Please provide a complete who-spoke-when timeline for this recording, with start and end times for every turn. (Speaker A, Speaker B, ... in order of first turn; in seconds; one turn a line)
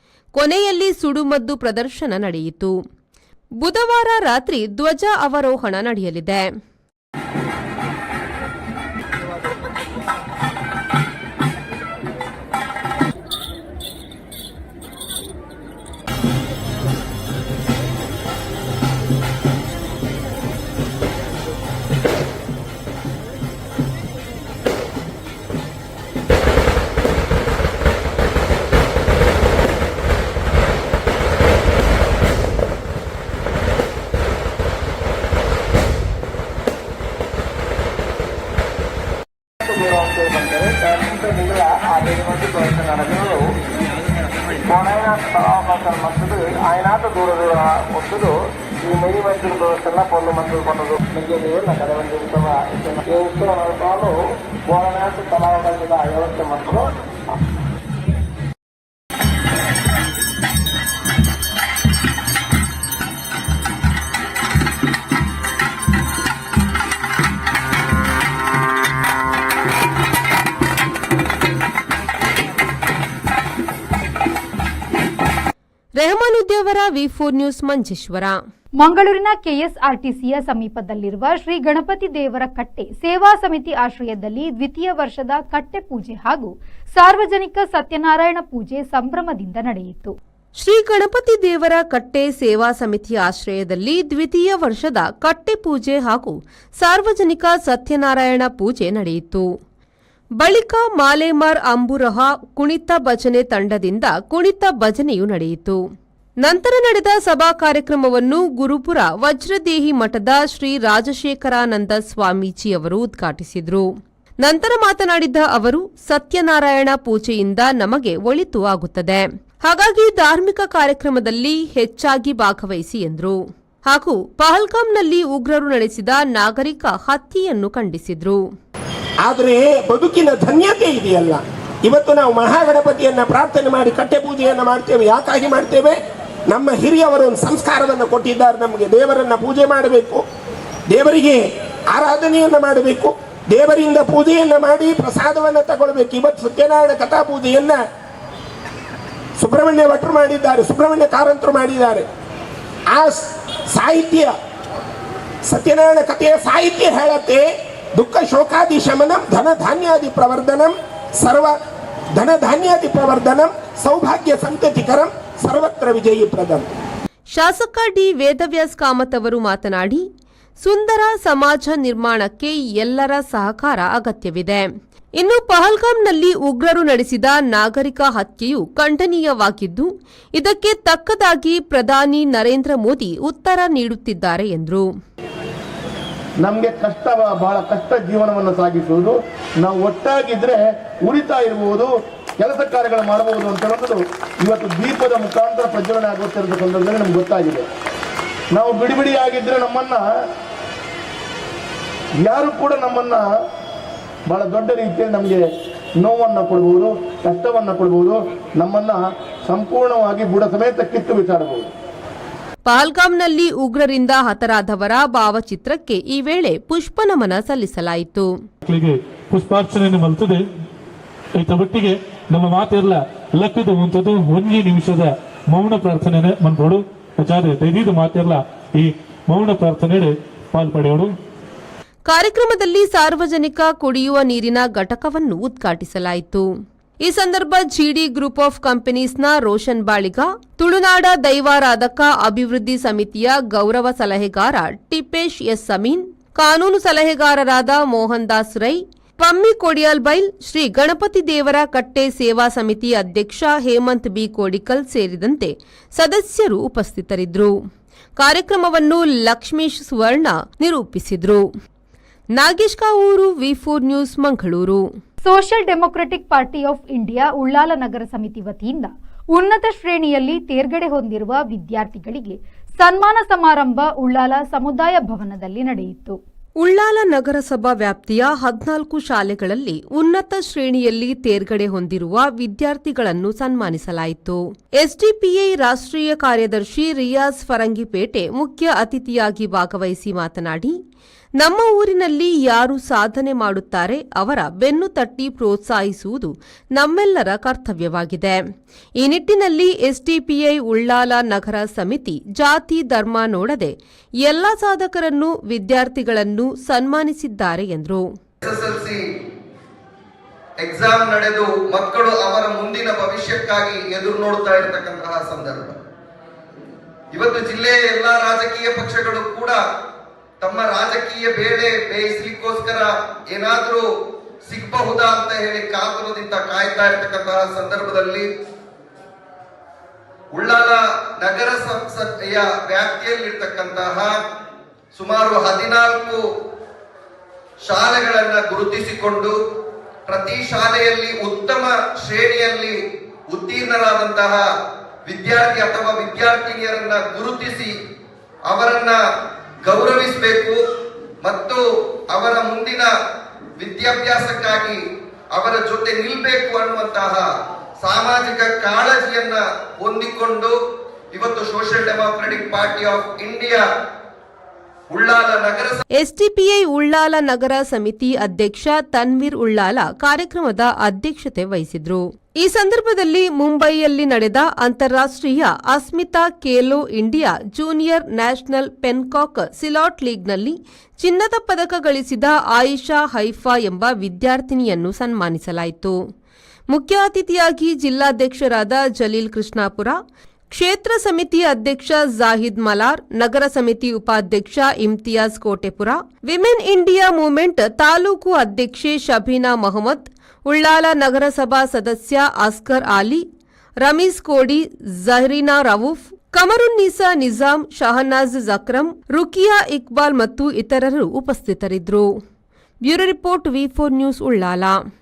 Speaker A: 0.3-2.7
Speaker A: 3.6-6.5
Speaker B: 39.6-43.4
Speaker B: 44.7-48.3
Speaker B: 48.8-54.1
Speaker B: 54.7-56.9
Speaker A: 76.0-78.3
Speaker C: 78.8-90.1
Speaker A: 90.6-99.4
Speaker A: 100.4-105.8
Speaker A: 106.4-113.8
Speaker A: 114.4-128.4
Speaker D: 129.2-136.0
Speaker D: 136.5-140.2
Speaker D: 140.9-147.8
Speaker D: 149.4-152.1
Speaker D: 152.9-154.3
Speaker D: 155.5-161.6
Speaker D: 162.1-166.7
Speaker A: 167.3-170.0
Speaker A: 170.6-174.7
Speaker A: 175.2-184.9
Speaker E: 186.4-197.6
Speaker E: 198.5-200.0
Speaker E: 202.2-203.2
Speaker E: 204.3-205.4
Speaker E: 206.0-211.7
Speaker A: 212.7-218.3
Speaker F: 218.6-220.4
Speaker F: 221.3-231.2
Speaker A: 232.1-236.5
Speaker A: 237.0-257.5
Speaker A: 258.2-261.4
Speaker A: 262.4-264.8
Speaker C: 265.2-276.2
Speaker A: 276.6-290.8
Speaker A: 291.4-298.4
Speaker A: 299.0-308.0
Speaker G: 308.4-309.0
Speaker G: 310.6-315.8
Speaker G: 317.1-319.6
Speaker G: 320.4-323.8
Speaker G: 324.4-328.3
Speaker G: 330.3-334.1
Speaker G: 334.9-336.2
Speaker G: 337.7-339.3
Speaker G: 340.1-342.8
Speaker G: 343.3-344.4
Speaker G: 345.1-347.7
Speaker G: 348.5-349.0
Speaker G: 349.6-350.6
Speaker G: 351.2-351.6
Speaker G: 352.1-352.9
Speaker G: 353.6-354.8
Speaker G: 355.4-357.2
Speaker G: 357.8-360.5
Speaker G: 361.1-363.6
Speaker G: 364.9-365.8
Speaker A: 366.0-385.9
Speaker A: 386.7-390.0
Speaker A: 390.5-403.2
Speaker A: 403.8-412.1
Speaker A: 412.8-414.8